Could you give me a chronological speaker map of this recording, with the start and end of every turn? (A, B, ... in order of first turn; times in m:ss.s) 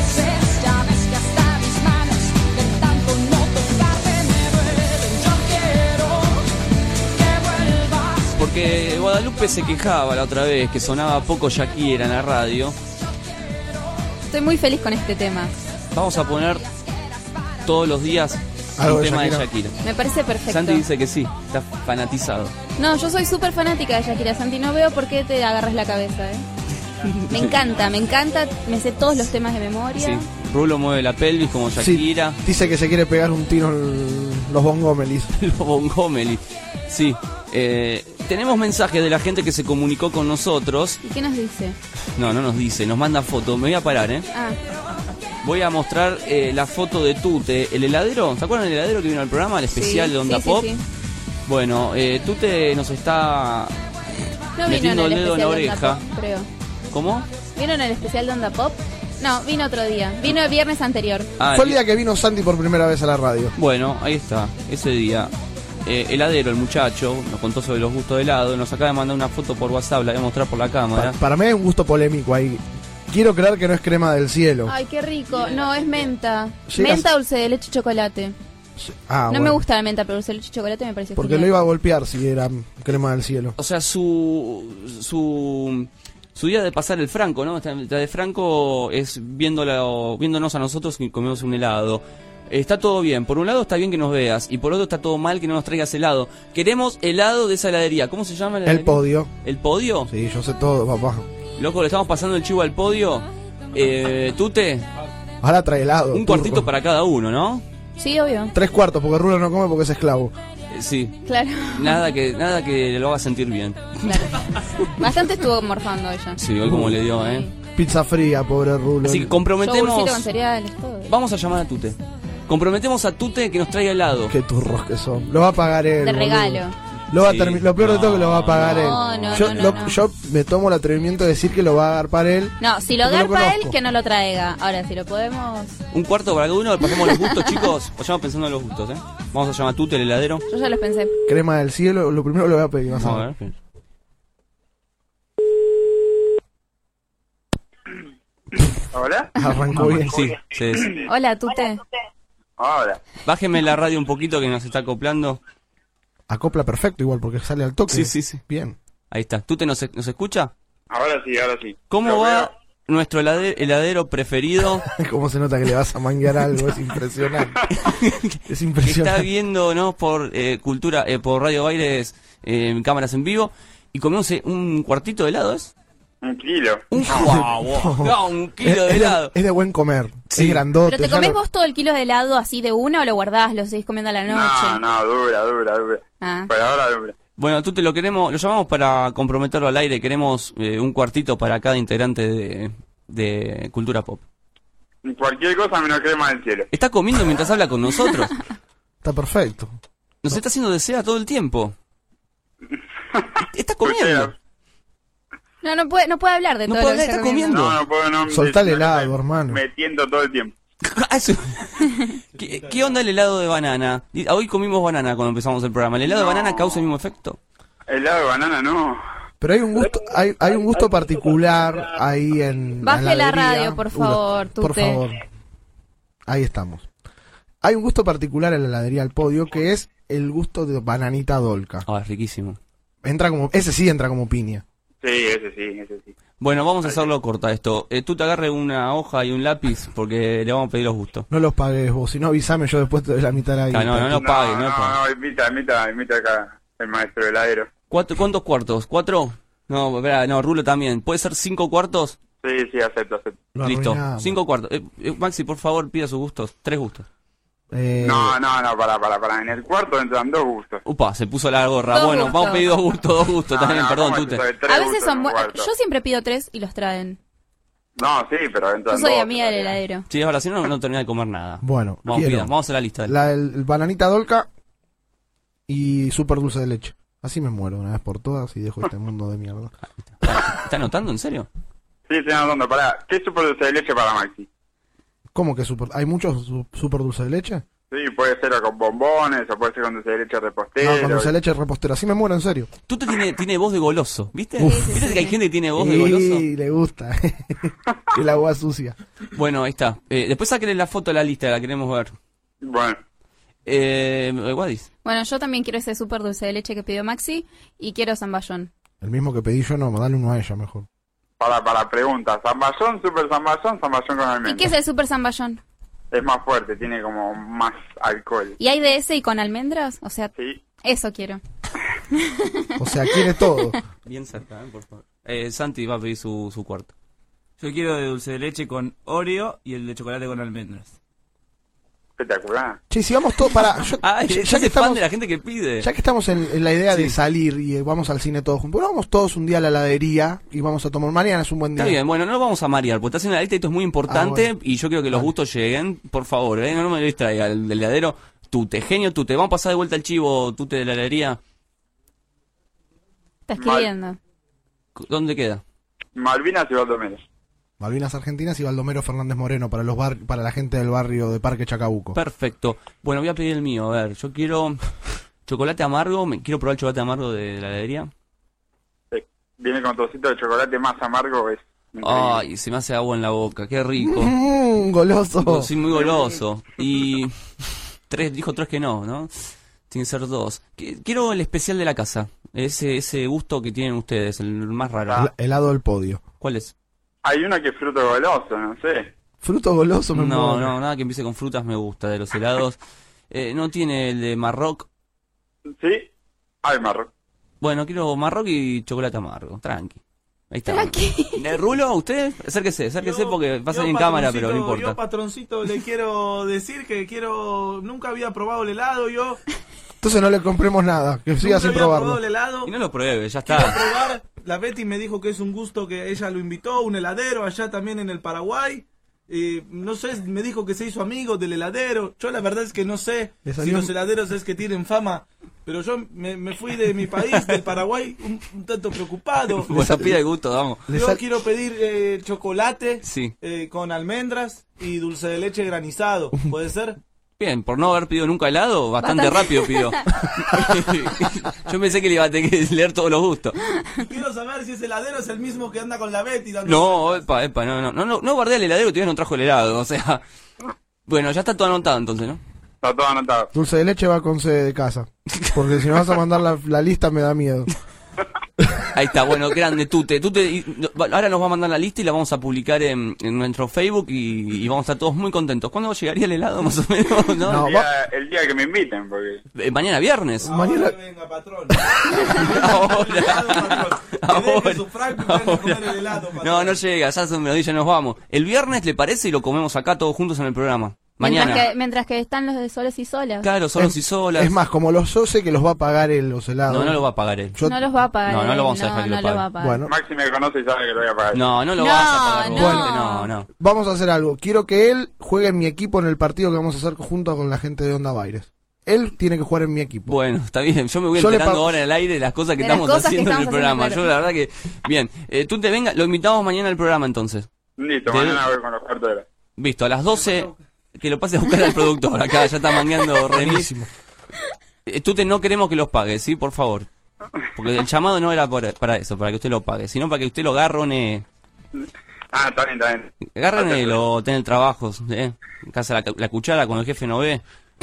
0:00.4-0:04.1 A
0:08.1-0:12.8 B
0:14.3-0:15.5 A
0:15.9-0:16.7 B
0:17.6-0:19.8 B
0:18.8-0:19.5 C
0:19.8-0:20.8 A
0:20.5-0:22.5 B
0:22.8-0:26.4 A
0:27.0-0:27.6 B
0:27.3-0:30.2 A
0:30.0-0:32.4 B
0:31.8-0:35.3 C
0:35.4-0:41.0 B
0:41.0-0:41.8 A
0:42.2-0:44.3 B
0:45.4-0:50.7 B
0:49.7-0:50.8 A
0:51.5-0:53.8 B
0:54.6-0:56.5 A
0:54.6-0:56.0 B
0:56.9-0:57.3 B
0:57.6-1:01.3 A
1:01.4-1:01.8 B
1:01.5-1:03.6 C
1:03.6-1:05.3 B
1:05.8-1:11.2 B
1:11.0-1:14.8 C
1:14.6-1:18.4 A
1:15.3-1:16.1 D
1:16.7-1:17.1 C
1:18.8-1:19.6 C
1:19.3-1:21.5 A
1:21.2-1:23.6 C
1:23.6-1:40.1 B
1:38.6-1:39.3 C
1:40.1-1:41.3 C
1:41.6-1:44.9 B
1:45.4-1:46.7 C
1:46.1-1:47.6 B
1:48.0-1:48.5 A
1:48.5-1:50.3 C
1:50.7-1:51.2 B
1:51.3-1:52.0 A
1:51.7-1:54.4 B
1:54.0-1:56.4 A
1:56.4-1:57.5 B
1:56.6-1:57.0 C
1:57.1-1:57.5 A
1:57.8-1:59.4 C
1:59.0-2:00.3 B
1:59.6-2:01.2 A
2:01.1-2:04.4 B
2:04.3-2:13.8 C
2:06.0-2:06.8 A
2:07.1-2:09.9 B
2:08.5-2:10.0 A
2:12.6-2:15.8 A
2:15.9-2:20.4 B
2:17.0-2:17.3 A
2:20.5-2:21.2 A
2:21.3-2:23.3 C
2:23.0-2:23.6 B
2:28.9-2:29.3 E
2:29.4-2:30.3 C
2:29.7-2:30.9 B
2:30.7-2:31.0 E
2:31.0-2:31.8 A
2:32.6-2:33.0 E
2:33.2-2:35.4 B
2:36.3-2:38.8 C
2:37.9-2:38.4 B
2:39.1-2:40.5 B
2:40.9-2:42.5 E
2:41.9-2:44.9 B
2:45.0-2:47.6 C
2:47.7-2:55.7 B
2:48.5-2:49.3 C
2:56.2-2:57.4 E
2:56.9-2:59.3 B
2:57.0-3:01.4 C
3:00.3-3:00.6 B
3:00.8-3:04.8 A
3:04.3-3:07.2 E
3:06.2-3:06.5 A
3:07.4-3:14.2 B
3:15.0-3:16.7 E
3:16.7-3:18.4 B
3:19.0-3:19.7 C
3:20.2-3:21.8 B
3:23.5-3:24.3 B
3:23.8-3:24.3 E
3:25.6-3:27.6 A
3:26.7-3:27.8 B
3:27.4-3:30.6 E
3:28.3-3:29.6 C
3:30.8-3:37.4 B
3:32.4-3:33.0 D
3:36.1-3:36.8 E
3:37.9-3:39.0 E
3:39.4-3:45.2 C
3:42.8-3:45.0 A
3:46.3-3:46.9 C
3:47.6-3:51.9 C
3:51.9-3:52.6 B
3:53.0-3:54.6 C
3:55.0-3:56.1 E
3:56.4-4:01.3 B
3:56.8-3:57.1 E
4:01.3-4:04.2 C
4:03.7-4:05.0 B
4:04.2-4:07.7 E
4:07.9-4:12.2 B
4:12.4-4:13.4 E
4:13.6-4:14.4 C
4:13.6-4:17.1 B
4:17.7-4:18.4 C
4:18.0-4:20.8 E
4:20.8-4:24.4 B
4:21.9-4:22.8 A
4:23.5-4:25.7 E
4:24.7-4:27.2 A
4:28.0-4:29.8 E
4:28.9-4:30.1 A
4:30.1-4:33.1 B
4:31.6-4:34.5 C
4:35.7-4:39.7 C
4:40.4-4:41.5 B
4:42.1-4:44.5 E
4:45.3-4:47.6 C
4:47.9-4:51.3 E
4:50.8-4:52.7 C
4:52.9-4:56.5 B
4:54.6-4:55.0 C
4:54.6-4:55.4 A
4:55.8-4:59.0 C
4:59.3-5:02.1 B
5:02.6-5:03.0 E
5:03.7-5:04.9 B
5:05.0-5:08.7 A
5:09.0-5:10.9 C
5:11.4-5:14.7 E
5:14.4-5:15.6 A
5:16.1-5:18.6 E
5:18.6-5:21.4 A
5:20.4-5:20.6 E
5:22.1-5:22.8 A
5:22.8-5:23.8 C
5:24.0-5:26.9 B
5:27.6-5:30.8 B
5:32.2-5:32.8 E
5:32.9-5:35.0 C
5:34.0-5:35.9 B
5:35.8-5:42.0 C
5:36.9-5:37.2 B
5:41.8-5:51.4 B
5:44.1-5:44.5 C
5:53.5-5:54.2 A
5:53.6-5:53.9 E
5:55.0-5:55.6 B
5:56.2-5:57.2 E
5:57.8-6:02.2 C
6:02.1-6:04.8 B
6:05.5-6:08.1 B
6:09.1-6:12.4 E
6:12.0-6:14.3 B
6:14.0-6:15.7 C
6:15.4-6:25.3 B
6:25.2-6:26.2 C
6:26.4-6:26.7 B
6:27.2-6:29.1 E
6:29.4-6:30.8 C
6:30.1-6:32.8 B
6:33.3-6:34.9 B
6:35.8-6:36.1 E
6:36.6-6:37.1 E
6:37.6-6:40.0 B
6:40.5-6:45.0 B
6:40.7-6:41.4 A
6:43.0-6:49.4 D
6:50.0-6:52.2 C
6:51.4-6:52.7 D
6:52.6-6:53.8 B
6:53.4-7:10.0 D
7:03.4-7:03.9 C
7:09.7-7:10.8 B
7:09.8-7:10.1 C
7:10.9-7:11.2 C
7:10.9-7:17.0 D
7:13.0-7:13.3 B
7:17.4-7:23.6 B
7:19.0-7:20.6 A
7:23.9-7:27.3 D
7:26.6-7:30.2 B
7:31.1-7:32.4 B
7:32.8-7:33.5 E
7:33.5-7:37.7 C
7:38.9-7:47.7 B
7:47.4-7:47.9 C
7:47.6-7:49.4 E
7:49.6-7:50.5 B
7:50.4-7:51.0 C
7:50.4-7:56.8 D
7:52.3-8:01.7 B
8:01.2-8:03.5 A
8:03.4-8:04.5 B
8:03.8-8:08.0 C
8:06.7-8:07.6 B
8:07.6-8:09.8 A
8:08.2-8:09.4 B
8:09.6-8:09.9 C
8:09.9-8:11.4 E
8:11.3-8:13.5 B
8:11.8-8:13.3 A
8:12.5-8:20.2 C
8:20.1-8:27.5 B
8:21.1-8:21.8 C
8:22.6-8:24.1 A
8:27.8-8:29.3 E
8:28.1-8:28.5 B
8:29.6-8:33.7 B
8:33.3-8:33.9 C
8:34.9-8:36.9 B
8:37.6-8:41.2 B
8:41.8-8:44.0 E
8:43.3-8:47.4 B